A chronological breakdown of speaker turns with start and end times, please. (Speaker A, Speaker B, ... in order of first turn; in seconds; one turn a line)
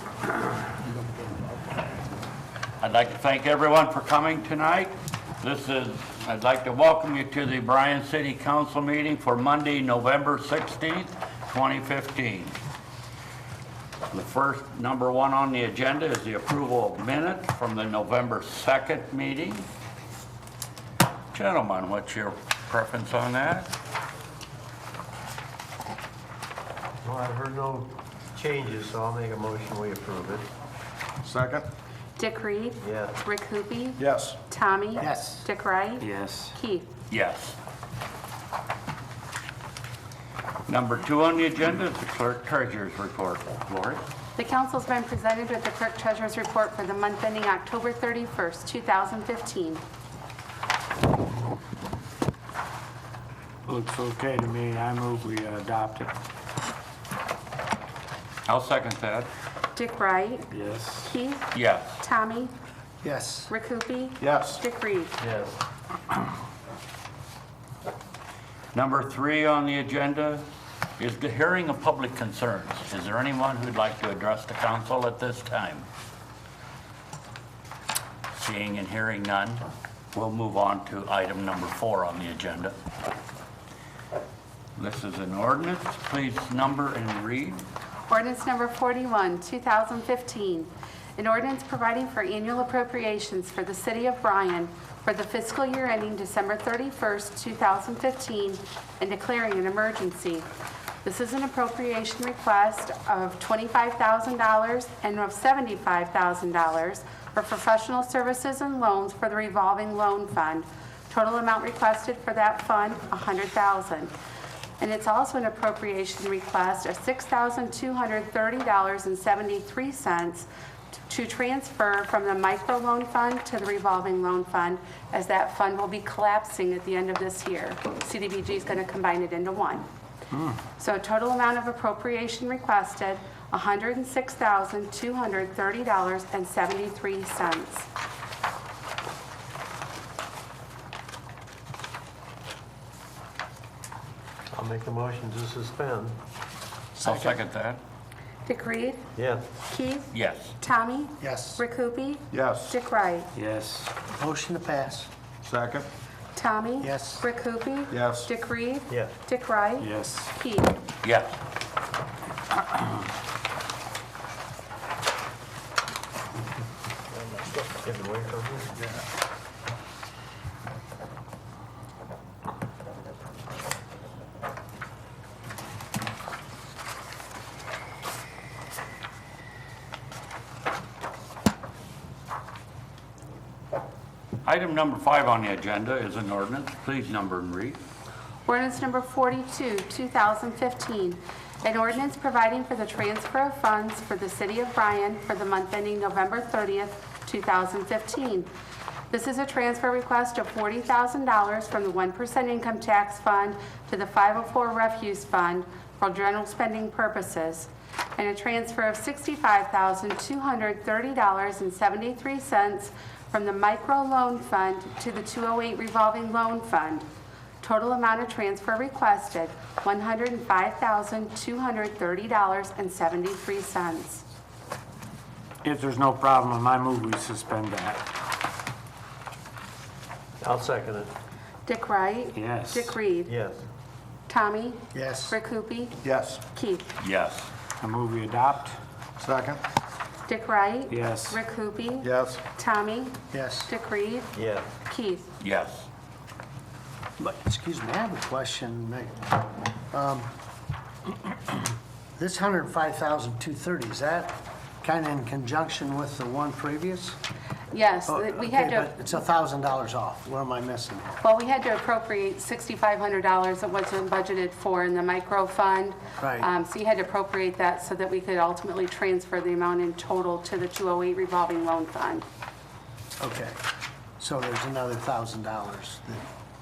Speaker A: 0.9-1.2
Speaker B: 2.8-12.5
Speaker B: 14.1-19.6
Speaker B: 21.3-23.7
Speaker C: 27.0-30.5
Speaker D: 31.2-31.7
Speaker E: 32.2-36.9
Speaker C: 32.8-33.2
Speaker D: 34.0-34.4
Speaker A: 35.0-35.4
Speaker F: 36.0-36.5
Speaker B: 37.1-37.6
Speaker B: 40.7-44.0
Speaker E: 44.4-49.8
Speaker F: 53.7-56.1
Speaker B: 58.5-59.3
Speaker E: 59.7-60.5
Speaker F: 60.5-61.1
Speaker E: 61.0-62.5
Speaker B: 61.5-61.9
Speaker A: 63.0-63.5
Speaker E: 63.5-65.1
Speaker D: 64.2-64.6
Speaker C: 65.2-65.6
Speaker B: 68.7-70.4
Speaker B: 71.0-75.8
Speaker B: 78.3-82.7
Speaker B: 84.8-87.6
Speaker E: 88.1-100.5
Speaker E: 101.0-114.1
Speaker E: 114.8-120.5
Speaker E: 121.1-129.8
Speaker E: 130.8-137.9
Speaker C: 144.5-146.2
Speaker B: 146.9-147.8
Speaker A: 147.0-147.4
Speaker E: 148.4-149.1
Speaker C: 149.1-149.5
Speaker E: 149.7-153.3
Speaker B: 150.1-150.5
Speaker A: 151.2-151.6
Speaker D: 152.3-152.8
Speaker F: 153.3-153.9
Speaker A: 154.1-155.1
Speaker D: 155.4-155.9
Speaker E: 156.3-160.8
Speaker A: 156.8-157.2
Speaker D: 157.9-158.3
Speaker F: 159.8-160.3
Speaker B: 161.0-161.4
Speaker C: 167.8-168.9
Speaker B: 184.4-187.8
Speaker E: 188.4-198.5
Speaker E: 199.1-217.1
Speaker E: 217.6-224.2
Speaker F: 225.6-228.0
Speaker C: 230.4-231.1
Speaker E: 231.7-233.3
Speaker F: 232.3-232.9
Speaker C: 233.2-233.7
Speaker E: 234.3-236.0
Speaker A: 234.9-235.4
Speaker D: 236.0-236.4
Speaker E: 236.5-236.9
Speaker B: 237.0-237.5
Speaker F: 237.8-238.8
Speaker D: 239.2-239.6
Speaker E: 240.2-244.3
Speaker F: 240.9-241.4
Speaker D: 242.0-242.4
Speaker A: 243.3-243.7
Speaker C: 244.3-244.7
Speaker E: 244.9-245.3
Speaker B: 245.4-245.9
Speaker A: 247.2-249.3
Speaker A: 249.9-250.3
Speaker A: 252.2-257.1
Speaker E: 257.7-258.9
Speaker A: 258.1-261.1
Speaker E: 261.2-272.2
Speaker A: 266.2-266.5
Speaker A: 273.2-273.6
Speaker A: 274.2-276.2